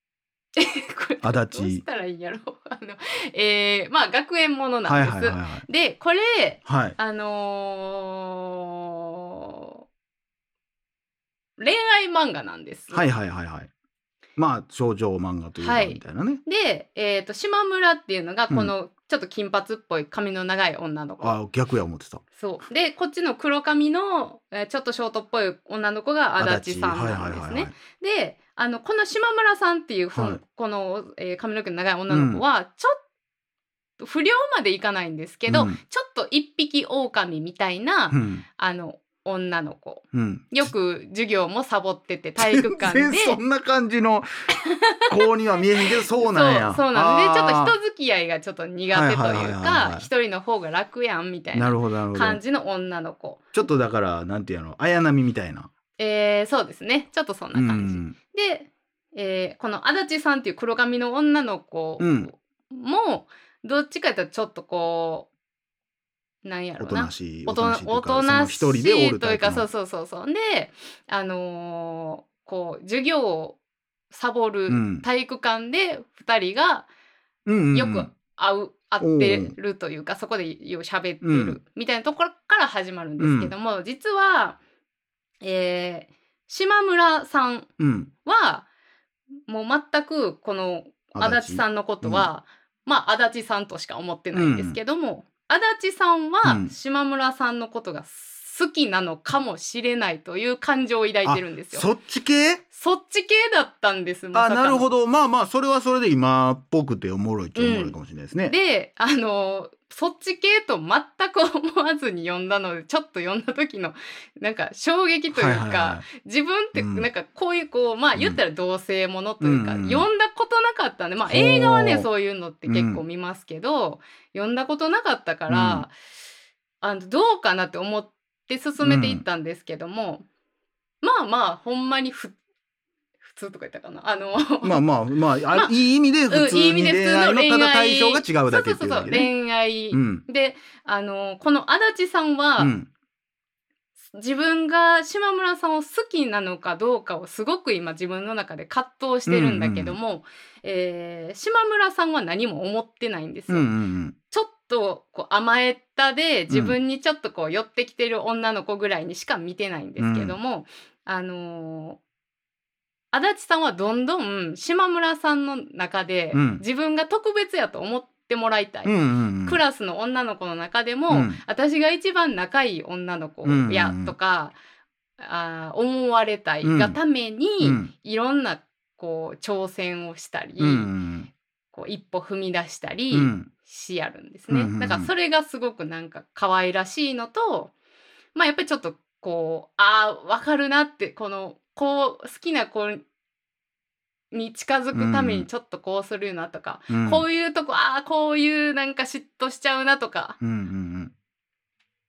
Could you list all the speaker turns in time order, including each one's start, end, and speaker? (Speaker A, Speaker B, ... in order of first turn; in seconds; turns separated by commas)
Speaker A: 0.6-9.8, Speaker B: 1.2-1.8, Speaker B: 4.9-5.7, Speaker B: 6.7-7.0, Speaker A: 11.6-13.1, Speaker B: 12.9-13.7, Speaker B: 14.4-16.4, Speaker A: 15.6-21.4, Speaker B: 21.2-22.2, Speaker A: 22.4-33.0, Speaker B: 26.4-27.7, Speaker B: 30.1-30.4, Speaker B: 32.1-32.4, Speaker A: 34.0-43.4, Speaker B: 35.5-35.8, Speaker B: 38.1-38.5, Speaker B: 40.1-40.7, Speaker B: 42.4-44.3, Speaker A: 44.6-45.1, Speaker B: 45.1-47.8, Speaker A: 45.9-53.4, Speaker B: 48.9-50.1, Speaker B: 51.5-52.4, Speaker B: 53.5-55.7, Speaker A: 56.0-65.3, Speaker B: 57.5-58.2, Speaker B: 62.0-62.3, Speaker A: 66.4-73.6, Speaker B: 66.8-69.7, Speaker A: 74.1-76.9, Speaker B: 74.7-75.0, Speaker B: 77.5-78.1, Speaker A: 77.7-84.6, Speaker B: 79.0-79.5, Speaker B: 81.2-81.6, Speaker B: 83.2-83.5, Speaker A: 85.4-87.7, Speaker B: 87.8-88.1, Speaker A: 88.2-88.7, Speaker A: 89.5-101.9, Speaker B: 91.2-92.3, Speaker B: 94.3-94.8, Speaker B: 96.4-96.7, Speaker B: 101.2-102.6, Speaker A: 102.7-104.8, Speaker B: 104.3-108.5, Speaker A: 107.6-108.0, Speaker A: 108.5-125.9, Speaker B: 115.3-116.0, Speaker B: 116.8-117.1, Speaker B: 118.2-118.4, Speaker B: 119.4-120.1, Speaker B: 121.3-122.1, Speaker B: 122.7-123.0, Speaker B: 125.5-125.9, Speaker A: 126.8-130.3, Speaker B: 128.8-129.2, Speaker A: 131.0-132.4, Speaker A: 133.2-134.8, Speaker B: 134.6-139.3, Speaker A: 136.3-142.8, Speaker B: 139.9-140.2, Speaker B: 142.6-142.9, Speaker A: 144.1-153.7, Speaker B: 149.3-150.0, Speaker B: 153.5-154.2, Speaker A: 154.3-162.0, Speaker B: 156.5-156.8, Speaker B: 160.0-160.4, Speaker A: 163.1-174.6, Speaker B: 166.3-166.6, Speaker B: 168.8-169.6, Speaker B: 171.1-171.4, Speaker B: 173.4-174.2, Speaker A: 175.2-180.9, Speaker B: 176.6-177.0, Speaker B: 177.6-177.9, Speaker B: 180.6-181.3, Speaker A: 181.7-187.7, Speaker B: 183.1-183.5, Speaker B: 184.5-185.1, Speaker A: 188.3-193.0, Speaker A: 194.3-200.4, Speaker B: 194.9-195.5, Speaker B: 196.9-197.3, Speaker B: 200.4-201.1